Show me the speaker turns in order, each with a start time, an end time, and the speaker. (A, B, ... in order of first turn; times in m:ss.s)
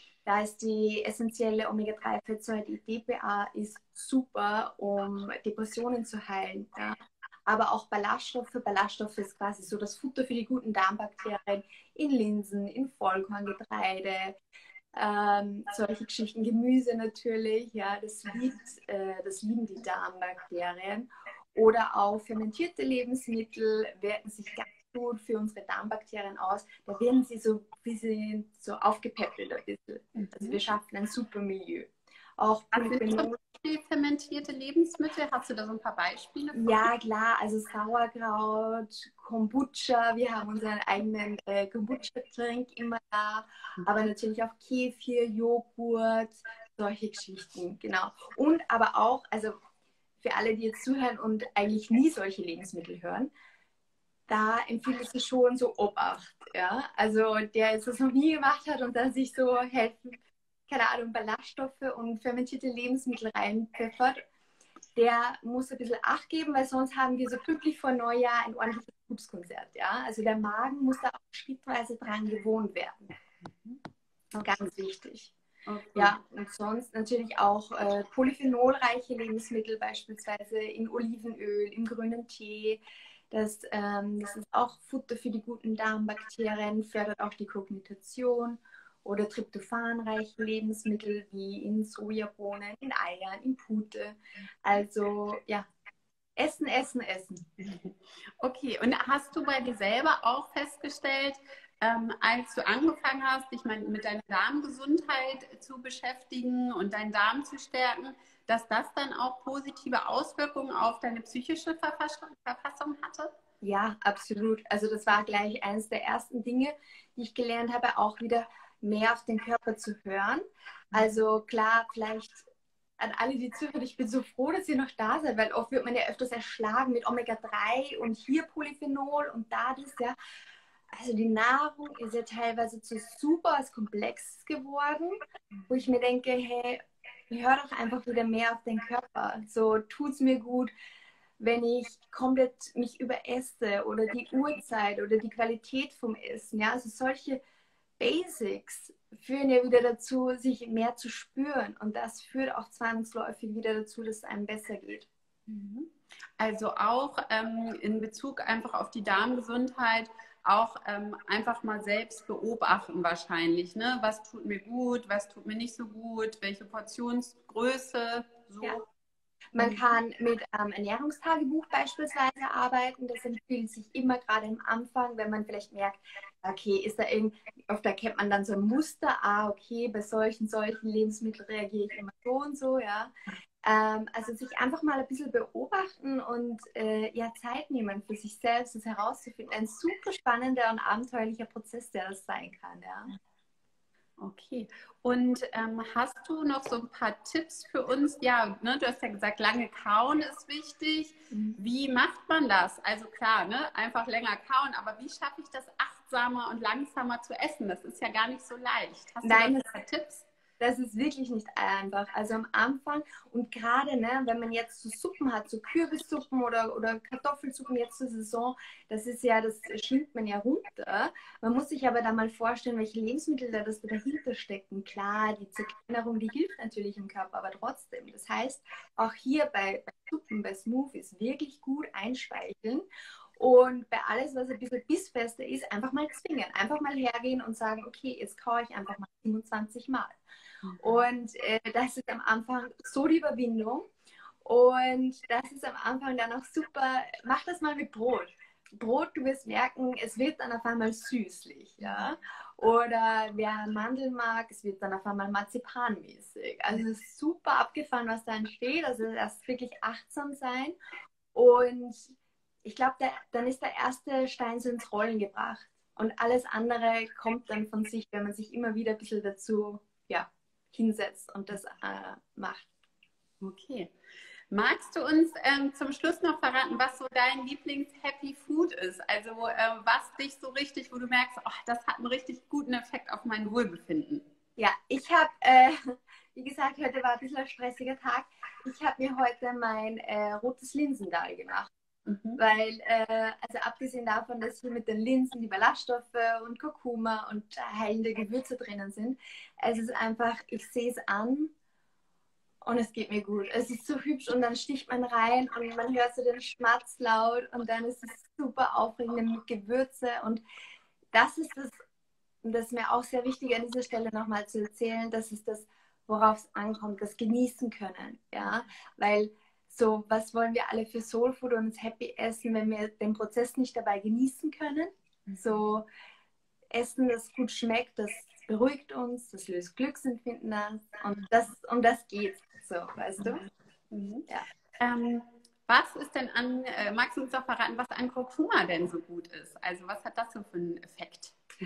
0:00.2-0:14.4 A
0:14.9-0:33.3 A
0:30.2-0:30.6 B
0:32.7-0:36.9 B
0:36.5-0:49.6 A
0:43.8-0:44.1 B
0:50.2-0:53.3 A
0:54.3-1:04.2 A
1:05.0-1:13.1 A
1:13.4-1:13.8 B
1:14.4-1:15.3 A
1:15.6-1:16.2 B
1:16.0-1:35.7 A
1:36.4-1:37.4 A
1:37.6-1:53.3 B
1:53.6-2:02.4 A
2:03.0-2:10.2 A
2:10.9-2:20.7 A
2:21.4-2:27.4 A
2:28.0-2:35.0 A
2:35.5-2:48.8 B
2:49.5-3:13.1 A
2:49.6-2:49.9 B
3:14.2-3:30.3 B
3:21.3-3:21.6 A
3:29.2-3:29.6 A
3:30.6-3:52.8 A
3:53.4-4:00.1 A
4:00.6-4:01.0 B
4:00.8-4:03.9 A
4:04.4-4:20.7 A
4:21.3-4:32.7 A
4:33.4-4:33.9 B
4:34.5-4:44.2 B
4:44.6-4:45.8 A
4:46.3-4:51.7 A
4:52.1-4:52.4 B
4:52.4-5:01.5 A
5:02.6-5:10.4 A
5:11.1-5:11.8 A
5:12.4-5:25.8 A
5:26.7-5:33.4 A
5:33.9-5:34.3 B
5:34.8-5:41.4 B